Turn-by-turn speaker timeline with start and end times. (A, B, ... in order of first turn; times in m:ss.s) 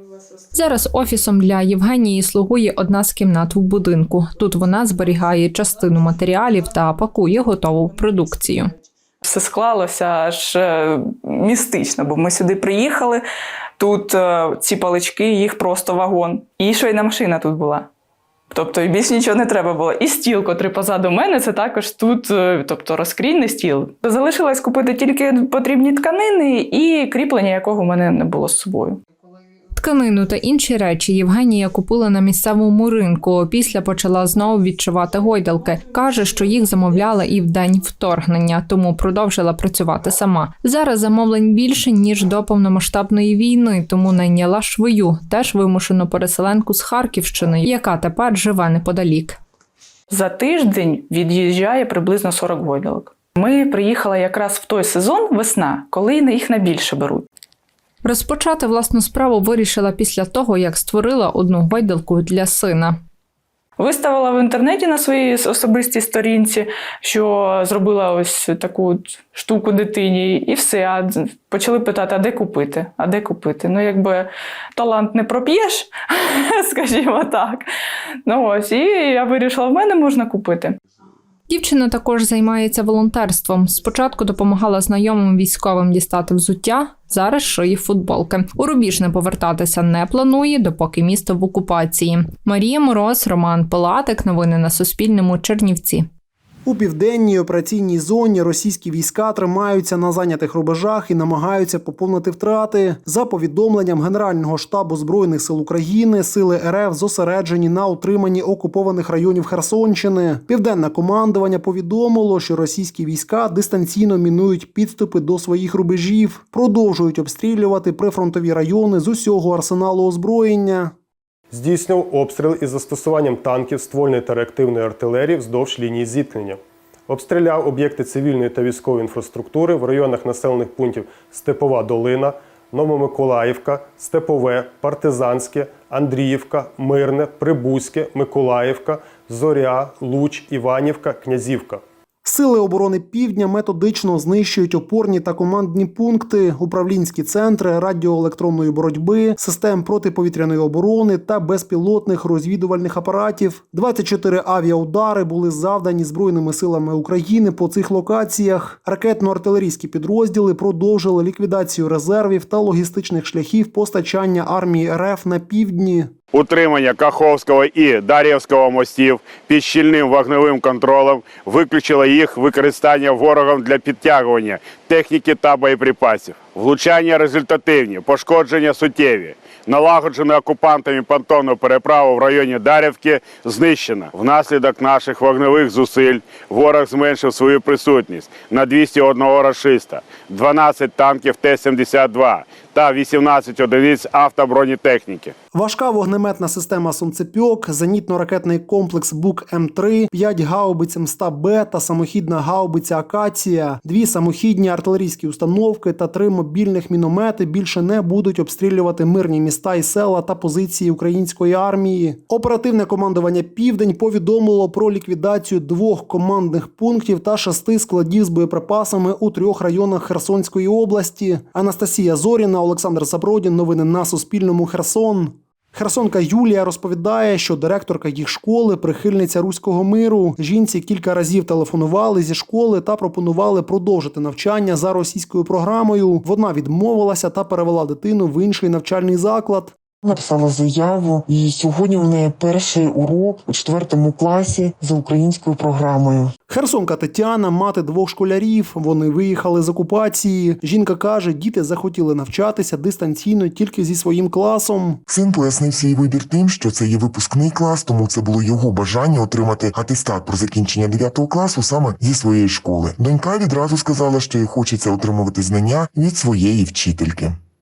0:00.5-0:08.7 A
0:09.2-0:13.2 B
0:13.8-0:17.9 B
0:18.5-0:29.0 B
0:29.8-0:49.4 A
0:50.1-0:57.3 B
0:58.0-1:03.0 A
1:03.8-1:17.7 B
1:18.3-1:20.8 B
1:21.5-1:36.1 A
1:36.6-2:00.9 C
2:01.5-2:06.6 D
2:07.1-2:21.8 D
2:22.2-2:46.1 C
2:46.3-3:15.3 E
3:15.5-3:59.8 C
4:00.0-4:06.3 F
4:06.5-4:15.0 C
4:15.1-4:27.4 F